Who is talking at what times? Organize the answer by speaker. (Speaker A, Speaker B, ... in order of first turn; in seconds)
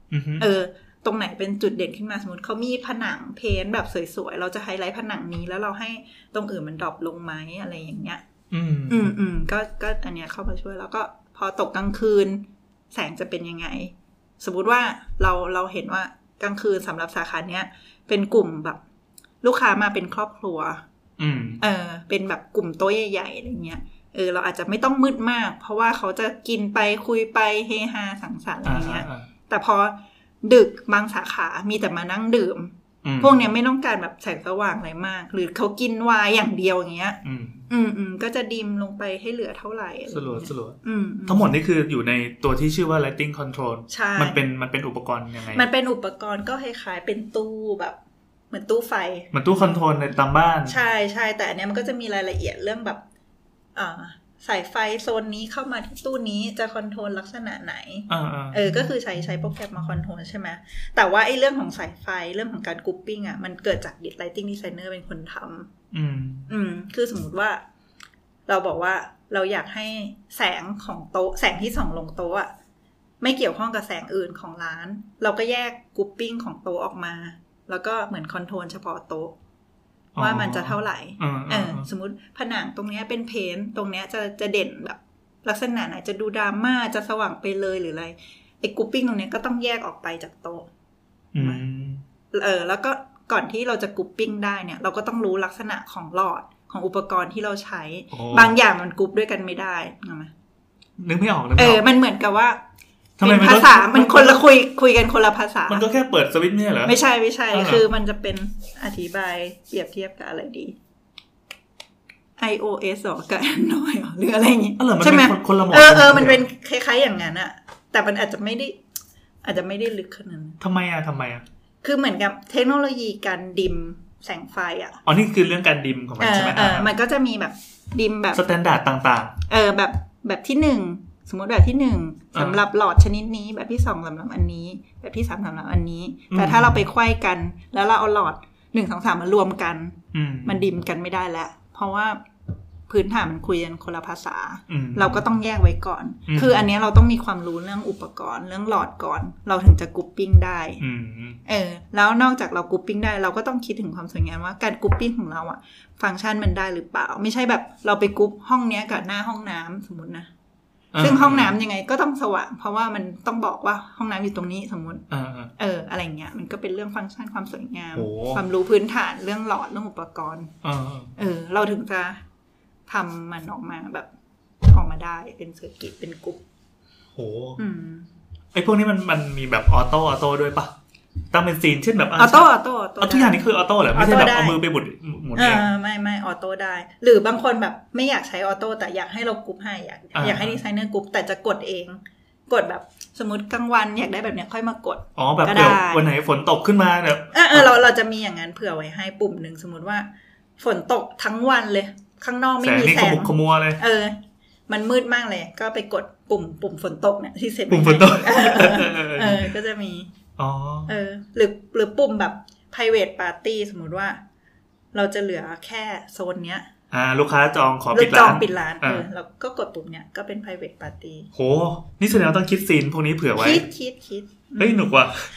Speaker A: 0.1-0.5, 8.5-9.1, 21.2-21.6, 28.6-29.3, 33.0-33.4, 37.2-37.6, 40.1-45.6, 49.3-50.8, 58.1-58.9, 65.9-66.5, 80.1-81.8, 91.3-92.0, 98.1-98.5, 101.0-101.8, 103.2-104.4, 105.7-107.0, 107.5-107.8, 114.8-116.5, 120.6-121.4, 125.0-126.9, 128.3-129.4, 132.3-132.6, 136.3-136.8, 140.1-140.6, 144.7-145.2, 146.3-146.6, 150.8-151.4, 160.9-161.5, 165.1-165.5, 167.9-168.4, 170.6-171.1, 177.2-177.6, 178.5-180.7, 181.3-185.6, 190.1-190.6, 195.2-197.7, 202.6-203.8, 207.7-209.5, 210.4-210.9, 216.9-219.1, 221.3-223.6, 224.6-225.2
Speaker B: 0.4-8.2, 8.9-18.8, 19.4-20.8, 21.6-41.5, 43.9-44.4, 45.5-48.0, 48.5-49.8, 50.7-53.0, 53.7-65.7, 66.5-67.6, 68.5-72.5, 73.2-79.3, 80.2-90.7, 92.3-100.3, 101.6-102.6, 103.2-105.8, 106.8-110.8, 112.4-118.8, 119.4-120.6, 121.8-125.0, 126.2-128.4, 129.5-142.2, 142.9-150.8, 151.4-160.3, 161.0-165.1, 165.6-170.5, 171.2-172.2, 172.9-174.1, 174.6-176.4, 177.6-178.1, 182.2-183.4, 183.9-184.6, 185.3-196.1, 197.3-210.1, 210.9-214.2, 214.9-216.7, 217.9-221.3, 223.4-224.9